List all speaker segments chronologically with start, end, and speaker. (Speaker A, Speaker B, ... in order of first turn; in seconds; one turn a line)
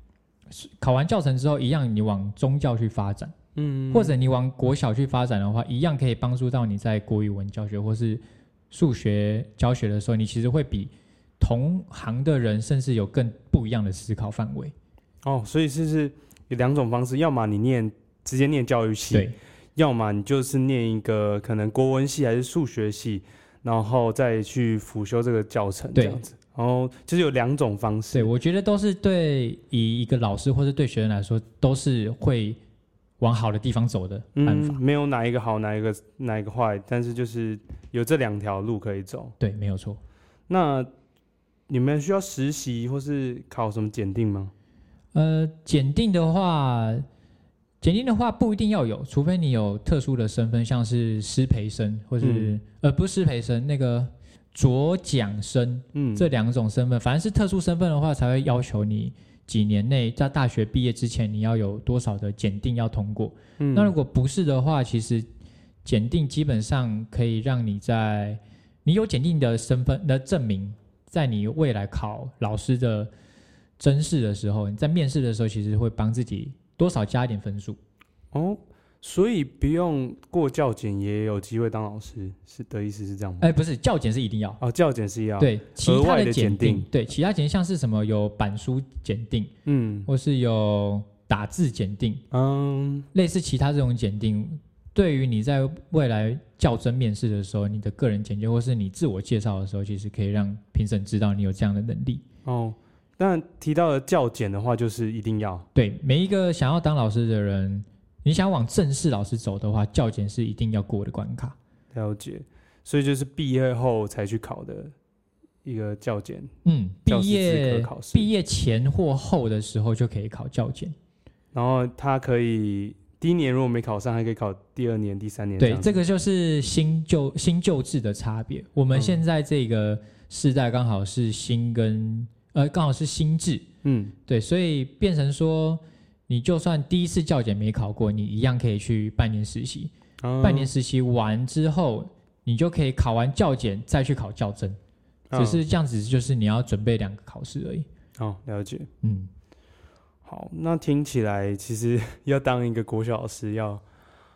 Speaker A: 0.5-3.3
Speaker B: 3.5-4.2
Speaker A: 3.9-14.7
Speaker B: 15.2-28.3
Speaker A: 19.1-19.4
Speaker A: 25.9-26.2
Speaker A: 28.1-32.6
Speaker A: 33.2-34.8
Speaker B: 34.4-39.4
Speaker A: 39.4-40.0
Speaker B: 40.5-40.9
Speaker B: 41.7-44.5
Speaker A: 45.1-47.0
Speaker A: 47.8-65.3
Speaker B: 52.2-52.5
Speaker B: 55.9-56.3
Speaker B: 63.6-63.9
Speaker A: 65.8-73.1
Speaker A: 73.8-77.8
Speaker B: 78.3-83.5
Speaker A: 83.4-84.6
Speaker B: 84.6-86.9
Speaker A: 85.4-89.5
Speaker B: 89.7-90.1
Speaker A: 90.1-92.2
Speaker B: 92.3-93.1
Speaker A: 93.1-102.2
Speaker B: 102.5-105.7
Speaker A: 105.8-111.6
Speaker B: 111.9-114.9
Speaker B: 115.6-116.5
Speaker A: 116.7-121.0
Speaker B: 117.1-118.3
Speaker B: 121.5-126.0
Speaker A: 125.6-133.7
Speaker B: 128.9-129.2
Speaker B: 133.8-134.1
Speaker A: 134.3-144.8
Speaker B: 140.2-140.7
Speaker B: 145.3-145.6
Speaker A: 145.3-147.9
Speaker B: 148.2-148.9
Speaker A: 149.0-149.3
Speaker B: 150.2-153.8